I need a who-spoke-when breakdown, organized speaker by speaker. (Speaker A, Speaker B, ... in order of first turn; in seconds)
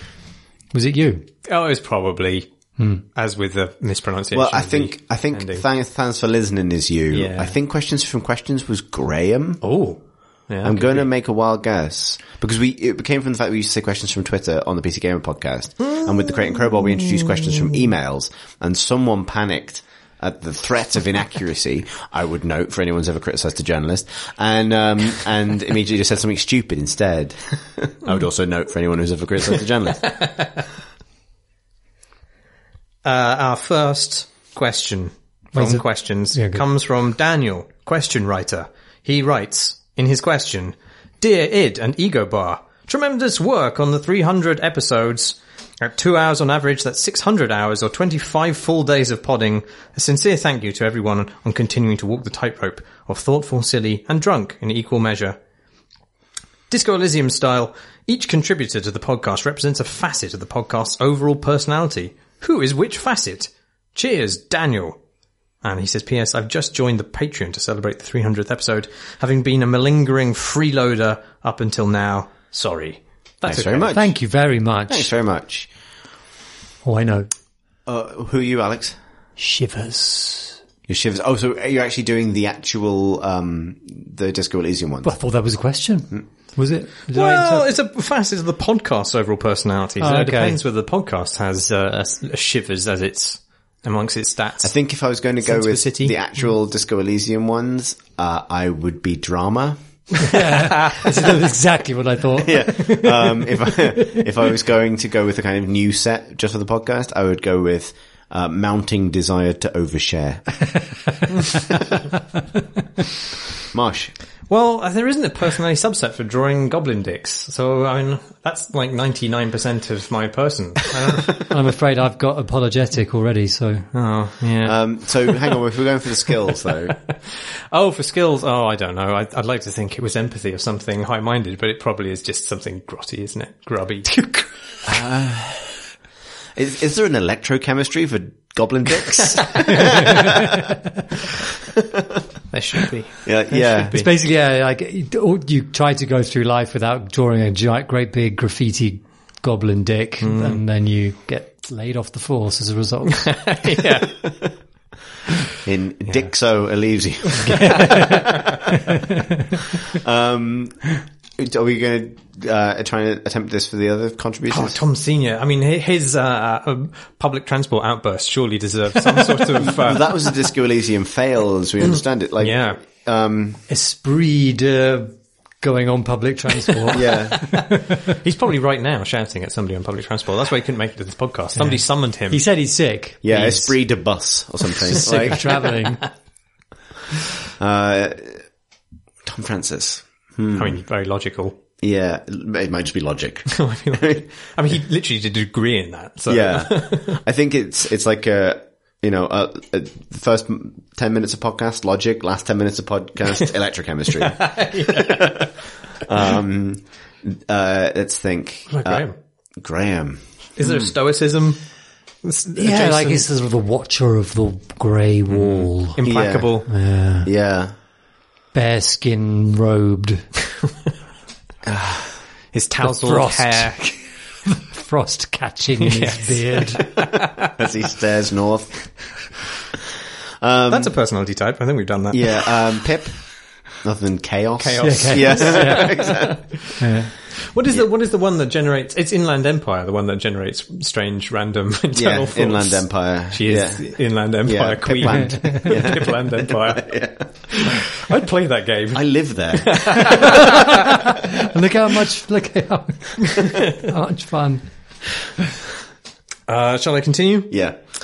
Speaker A: 0.7-1.3, 2.8-3.0, 35.5-36.6, 73.9-75.1, 76.8-77.3, 79.4-80.6, 85.0-87.7, 90.0-90.6, 100.2-104.2, 121.5-123.9, 134.1-134.5, 139.8-140.7, 143.9-153.6, 157.5-158.3, 173.7-178.1, 181.6-183.7, 184.9-186.0, 212.6-216.0, 216.7-217.3, 218.5-220.3, 222.8-226.9, 234.8-237.1, 245.1-245.7, 250.1-254.6
Speaker B: 1.5-2.5, 3.1-5.7, 7.1-7.5, 9.6-11.1, 15.9-17.7, 30.1-30.6, 33.0-55.4, 56.7-65.0, 65.6-74.0, 87.1-96.2, 114.5-121.4, 123.9-125.6, 127.3-134.3, 139.2-140.3, 142.5-144.1, 150.2-150.6, 153.3-154.3, 157.4-158.6, 164.5-170.3, 172.4-172.8, 177.5-182.4, 185.1-185.6, 190.6-191.6, 193.5-197.2, 204.3-205.5, 208.7-209.2, 210.6-211.6, 212.2-213.2, 215.3-216.7, 222.5-223.8, 225.8-227.5, 230.7-232.6, 234.6-246.9, 247.5-250.7, 256.5-257.7
Speaker C: 4.3-9.6, 10.6-30.2, 73.5-74.2, 74.9-75.7, 77.9-79.0, 80.9-85.1, 94.6-99.8, 102.4-110.5, 113.7-114.1, 124.6-127.0, 134.8-135.8, 136.6-140.5, 141.8-142.2, 143.2-144.0, 155.7-158.1, 159.9-164.8, 169.6-173.6, 176.9-177.5, 183.2-185.5, 187.6-188.5, 189.2-190.8, 191.8-194.2, 196.3-209.1, 209.6-210.9, 216.0-216.6, 217.2-217.7, 221.7-222.1, 227.6-229.2, 230.4-230.9, 232.1-236.5, 241.9-247.5, 248.9-250.4, 257.5-257.8